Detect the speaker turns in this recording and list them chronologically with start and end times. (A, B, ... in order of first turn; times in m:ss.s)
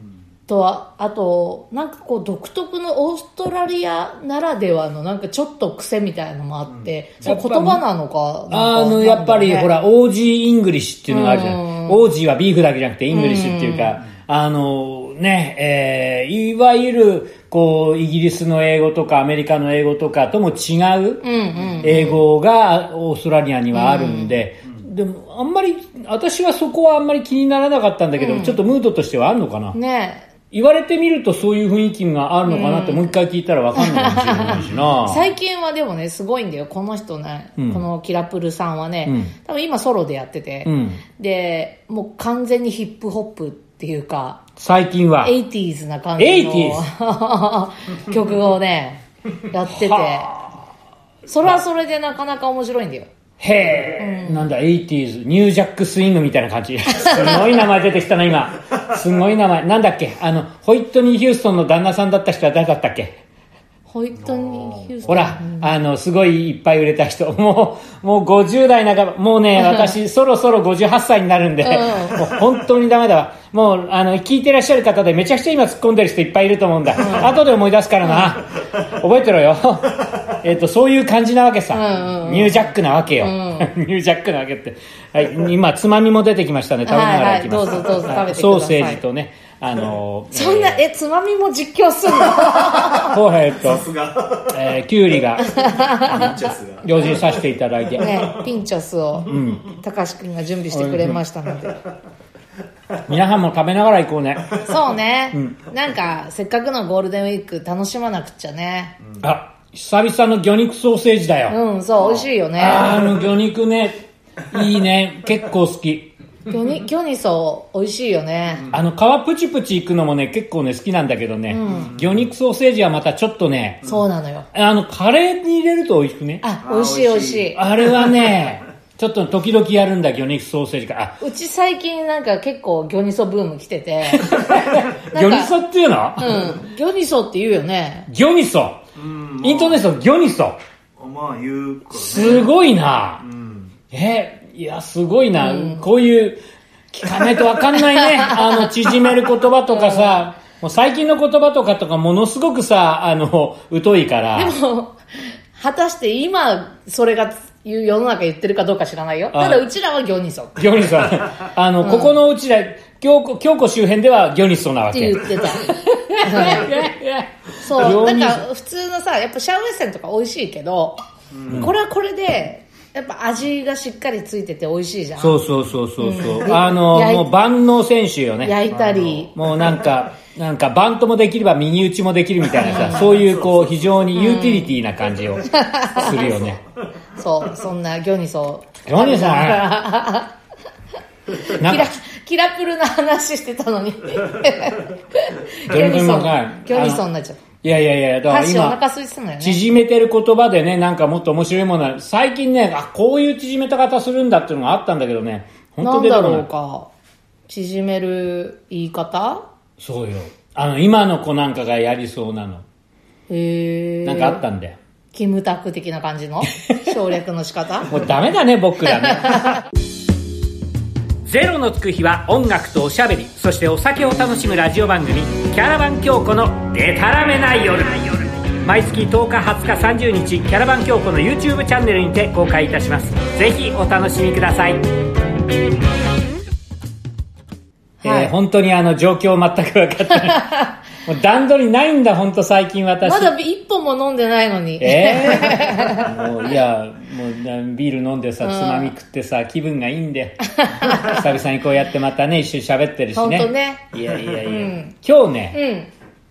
0:00.5-0:09.7 A
0:07.2-0:07.8 B
0:08.5-0:21.2 B
0:11.1-0:12.0 A
0:13.1-0:14.0 A
0:21.2-0:22.2 A
0:21.8-0:29.8 B
0:23.7-0:24.4 A
0:28.2-0:28.6 A
0:29.7-0:30.3 A
0:30.5-0:35.3 B
0:32.4-0:33.1 A
0:33.7-0:44.4 A
0:37.6-0:37.8 B
0:39.0-0:39.3 B
0:40.6-0:41.0 B
0:44.6-0:45.4 B
0:45.2-0:50.3 A
0:46.2-0:46.8 B
0:49.7-0:50.4 B
0:51.2-0:53.1 A
0:53.4-1:03.2 B
0:54.0-0:54.5 A
1:03.9-1:05.7 A
1:04.3-1:04.8 C
1:05.0-1:30.8 B
1:09.6-1:09.9 A
1:11.6-1:12.2 A
1:17.0-1:17.3 A
1:18.0-1:18.3 A
1:21.7-1:22.6 A
1:23.2-1:23.7 A
1:26.8-1:29.0 A
1:30.3-1:33.2 A
1:32.8-1:33.9 B
1:33.6-1:34.5 C
1:34.4-1:35.5 B
1:35.4-1:36.5 A
1:35.6-1:37.4 C
1:36.8-1:38.4 B
1:38.0-1:41.8 A
1:39.2-1:39.7 B
1:40.7-1:41.2 B
1:43.0-1:44.7 B
1:44.6-1:49.0 A
1:49.2-1:51.6 B
1:51.5-1:53.0 A
1:52.6-1:56.1 B
1:56.5-1:58.7 A
1:58.7-2:03.9 B
2:01.5-2:02.0 A
2:03.8-2:04.5 A
2:04.5-2:06.4 B
2:06.4-2:07.6 A
2:06.6-2:08.2 C
2:07.5-2:11.2 B
2:11.2-2:15.6 A
2:14.0-2:16.6 B
2:16.2-2:18.1 A
2:18.1-2:18.8 B
2:19.0-2:19.8 C
2:19.4-2:20.6 B
2:21.0-2:22.5 C
2:21.9-2:23.2 B
2:23.2-2:23.6 C
2:23.9-2:34.6 B
2:25.4-2:25.8 A
2:27.9-2:28.7 A
2:29.7-2:30.2 A
2:34.3-2:35.0 A
2:35.5-2:40.9 A
2:39.3-2:39.6 B
2:40.6-2:48.4 B
2:41.8-2:42.2 A
2:44.9-2:46.8 A
2:47.6-2:55.4 A
2:51.3-2:51.6 C
2:51.5-2:51.7 B
2:55.2-3:06.6 B
2:56.0-2:57.3 A
2:58.4-2:59.3 A
2:58.7-2:59.2 C
3:02.6-3:03.2 A
3:02.8-3:03.9 C
3:04.1-3:04.7 A
3:05.4-3:06.5 A
3:07.2-3:10.3 A
3:08.8-3:09.7 B
3:11.4-3:17.4 A
3:11.5-3:11.9 B
3:15.7-3:17.0 B
3:17.6-3:18.8 B
3:18.3-3:19.6 A
3:19.4-3:26.5 B
3:25.8-3:26.9 A
3:27.5-3:29.4 A
3:29.8-3:32.6 B
3:33.3-3:34.4 A
3:34.0-3:34.8 B
3:35.1-3:37.9 A
3:37.9-3:39.6 B
3:38.9-3:39.6 A
3:41.2-3:54.8 B
3:58.0-3:58.3 A
3:58.0-4:03.3 B
4:03.0-4:06.1 A
4:04.8-4:15.6 B
4:08.4-4:08.9 A
4:10.6-4:11.2 A
4:13.1-4:13.9 A
4:14.4-4:14.9 A
4:15.5-4:15.9 A